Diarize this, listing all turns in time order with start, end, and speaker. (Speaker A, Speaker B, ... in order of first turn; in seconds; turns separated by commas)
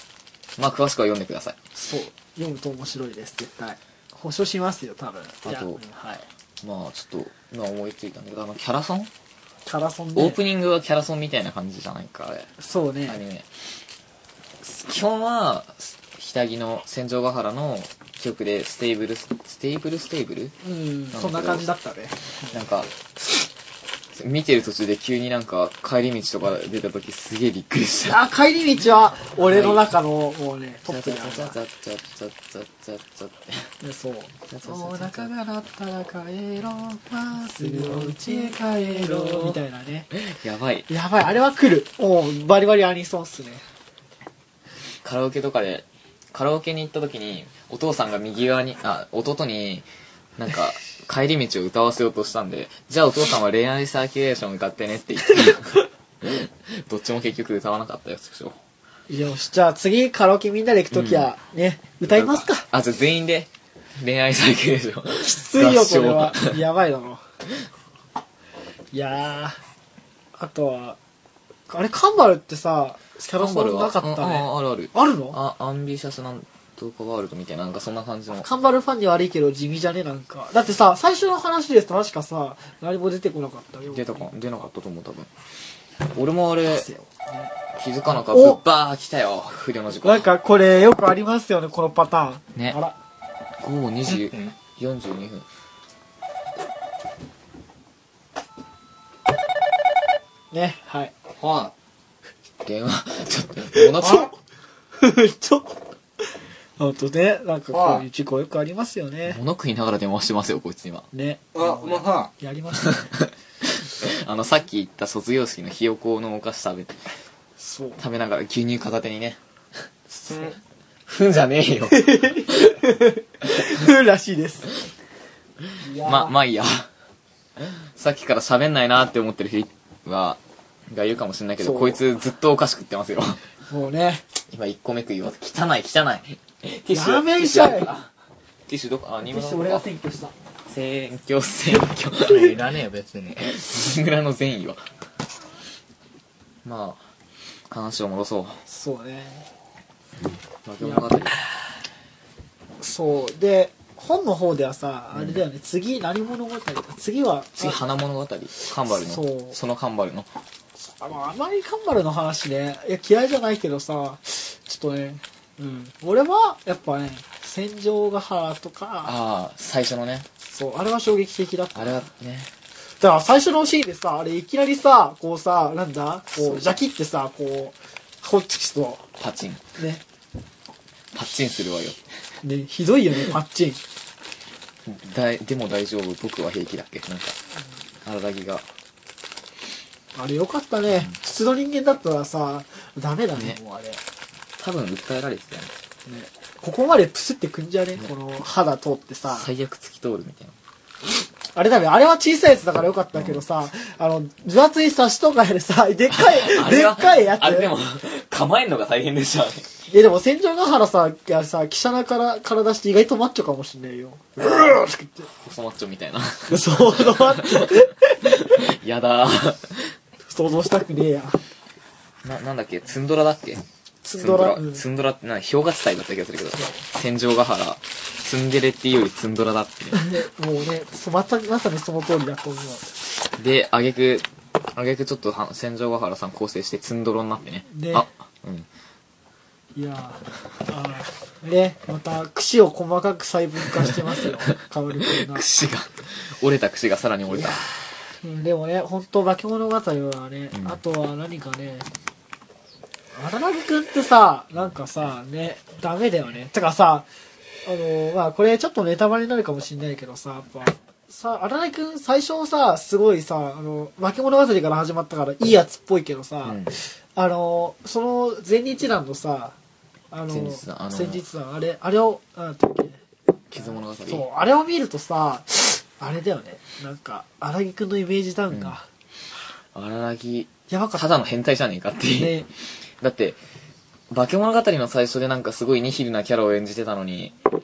Speaker A: 0.6-1.6, Speaker B: 1.7-6.2, Speaker A: 5.5-5.8, Speaker A: 6.6-9.1, Speaker B: 9.7-10.4, Speaker A: 10.2-12.5, Speaker B: 12.6-13.2, Speaker A: 13.1-13.4, Speaker A: 14.6-20.6, Speaker B: 20.6-22.5, Speaker A: 21.1-21.6, Speaker A: 22.5-22.9, Speaker A: 24.1-28.2, Speaker B: 28.0-31.6, Speaker A: 29.4-29.8, Speaker A: 30.9-33.7, Speaker B: 33.8-40.1, Speaker A: 34.5-35.3, Speaker A: 37.5-39.6, Speaker A: 40.1-40.9, Speaker B: 40.9-43.6, Speaker A: 45.0-49.9, Speaker A: 50.4-58.6, Speaker B: 59.1-62.7, Speaker A: 60.9-61.3, Speaker A: 62.1-66.6, Speaker B: 65.2-67.2, Speaker B: 68.9-69.6, Speaker B: 70.3-71.0, Speaker B: 71.7-75.4, Speaker A: 73.4-78.5, Speaker B: 78.4-84.3, Speaker A: 83.9-85.3, Speaker A: 86.1-86.9, Speaker B: 86.7-87.5, Speaker A: 87.7-90.3, Speaker B: 88.1-88.6, Speaker B: 90.0-92.9, Speaker A: 93.6-95.5, Speaker C: 94.1-94.5, Speaker B: 100.5-101.1, Speaker C: 101.4-101.7, Speaker A: 102.6-104.3, Speaker B: 103.7-104.3, Speaker B: 105.0-106.2, Speaker B: 106.8-109.4, Speaker C: 107.7-108.0, Speaker A: 109.2-111.1, Speaker B: 111.1-113.1, Speaker C: 111.5-112.3, Speaker A: 112.8-117.0, Speaker B: 117.6-118.0, Speaker A: 118.0-119.4, Speaker B: 120.1-120.5, Speaker A: 121.1-122.8, Speaker B: 121.9-124.8, Speaker A: 125.6-126.9, Speaker B: 125.8-126.3, Speaker A: 127.6-133.4, Speaker B: 131.6-132.0, Speaker B: 133.7-134.2, Speaker A: 134.5-138.1, Speaker B: 136.9-137.9, Speaker A: 138.7-139.8, Speaker B: 139.2-140.3, Speaker A: 140.7-142.5, Speaker C: 142.2-143.5, Speaker A: 143.4-144.8, Speaker A: 146.6-147.1, Speaker A: 147.7-148.6, Speaker B: 148.7-149.5, Speaker A: 150.6-151.4, Speaker B: 150.8-151.2, Speaker B: 152.8-157.8, Speaker A: 155.1-155.4, Speaker A: 157.6-160.3, Speaker B: 158.6-159.6, Speaker B: 160.8-169.1, Speaker A: 169.0-170.3, Speaker B: 170.4-172.0, Speaker A: 171.7-172.5, Speaker B: 173.0-179.0, Speaker A: 176.3-176.7, Speaker A: 179.2-179.6, Speaker B: 179.8-180.0, Speaker A: 181.1-182.0, Speaker B: 182.4-183.8, Speaker A: 184.8-187.4, Speaker A: 188.0-188.6, Speaker B: 190.1-194.0, Speaker A: 194.6-195.7, Speaker B: 196.1-199.5, Speaker A: 199.3-200.6, Speaker B: 201.5-207.7, Speaker A: 203.1-203.4, Speaker A: 206.1-209.7, Speaker B: 209.9-215.3, Speaker A: 215.4-219.9, Speaker B: 216.5-218.7, Speaker B: 220.2-221.4, Speaker A: 222.2-223.6, Speaker B: 224.0-224.8, Speaker A: 224.1-230.1, Speaker B: 229.9-232.9, Speaker A: 233.3-238.7, Speaker B: 237.7-238.1, Speaker B: 239.7-245.5, Speaker A: 245.0-247.7, Speaker B: 247.3-251.9, Speaker B: 253.1-257.1, Speaker B: 257.6-269.5, Speaker A: 266.4-266.8, Speaker B: 270.1-273.0, Speaker A: 270.3-271.2, Speaker A: 273.5-274.2, Speaker B: 273.5-278.8, Speaker A: 278.5-278.8, Speaker A: 279.7-282.4, Speaker B: 280.7-281.1, Speaker B: 282.1-282.5, Speaker A: 283.0-283.4, Speaker A: 284.1-287.3